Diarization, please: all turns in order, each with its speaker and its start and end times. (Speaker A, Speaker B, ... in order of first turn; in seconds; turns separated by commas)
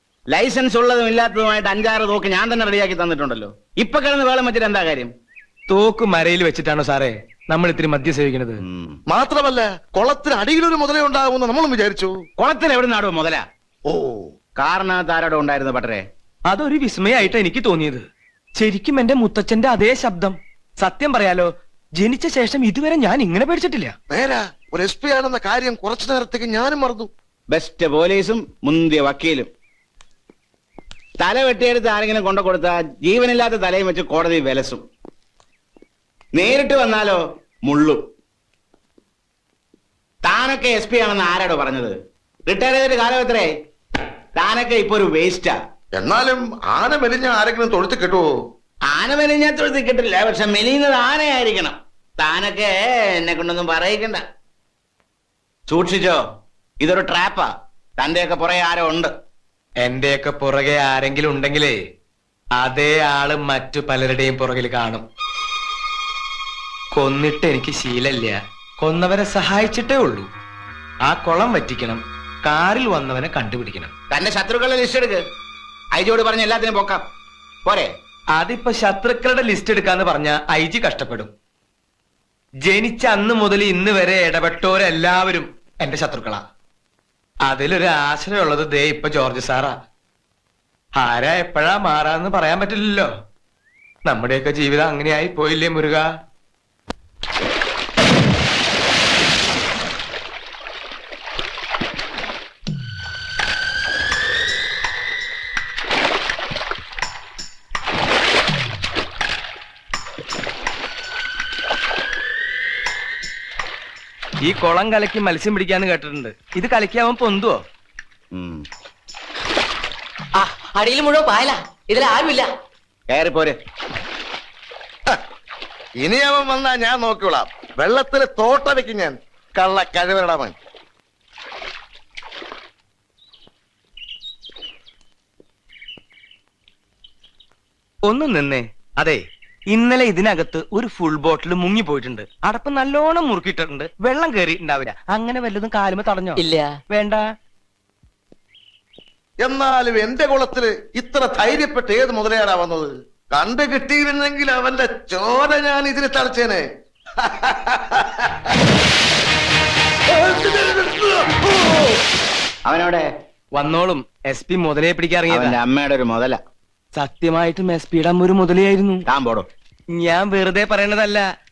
Speaker A: 0.3-5.1, Speaker B: 5.7-8.6, Speaker A: 8.7-9.0, Speaker C: 9.1-12.2, Speaker A: 12.4-13.4, Speaker C: 13.8-14.3, Speaker A: 14.6-16.0, Speaker B: 16.5-18.0, Speaker B: 18.6-23.9, Speaker C: 24.1-27.1, Speaker A: 27.5-29.5, Speaker A: 31.2-34.8, Speaker A: 36.3-38.0, Speaker A: 40.2-41.9, Speaker A: 42.5-43.5, Speaker A: 44.4-45.5, Speaker C: 45.9-48.3, Speaker A: 48.9-54.2, Speaker A: 55.7-56.2, Speaker A: 56.8-57.5, Speaker A: 58.0-59.1, Speaker B: 59.8-61.8, Speaker B: 62.6-65.0, Speaker B: 66.9-70.3, Speaker B: 71.0-73.9, Speaker A: 74.1-75.2, Speaker A: 76.0-77.0, Speaker B: 78.3-81.3, Speaker B: 82.6-86.4, Speaker B: 87.5-89.8, Speaker B: 91.0-93.1, Speaker B: 94.0-96.1, Speaker B: 114.4-117.6, Speaker A: 118.3-118.6, Speaker D: 120.4-122.5, Speaker A: 123.1-123.6, Speaker C: 126.0-130.5, Speaker B: 138.1-147.2, Speaker D: 146.4-146.8, Speaker C: 149.4-156.7, Speaker C: 157.2-158.3, Speaker C: 160.4-161.1, Speaker A: 162.7-163.0, Speaker B: 163.5-165.6, Speaker A: 165.3-166.4, Speaker B: 166.9-169.0, Speaker A: 169.1-169.4, Speaker B: 169.9-171.2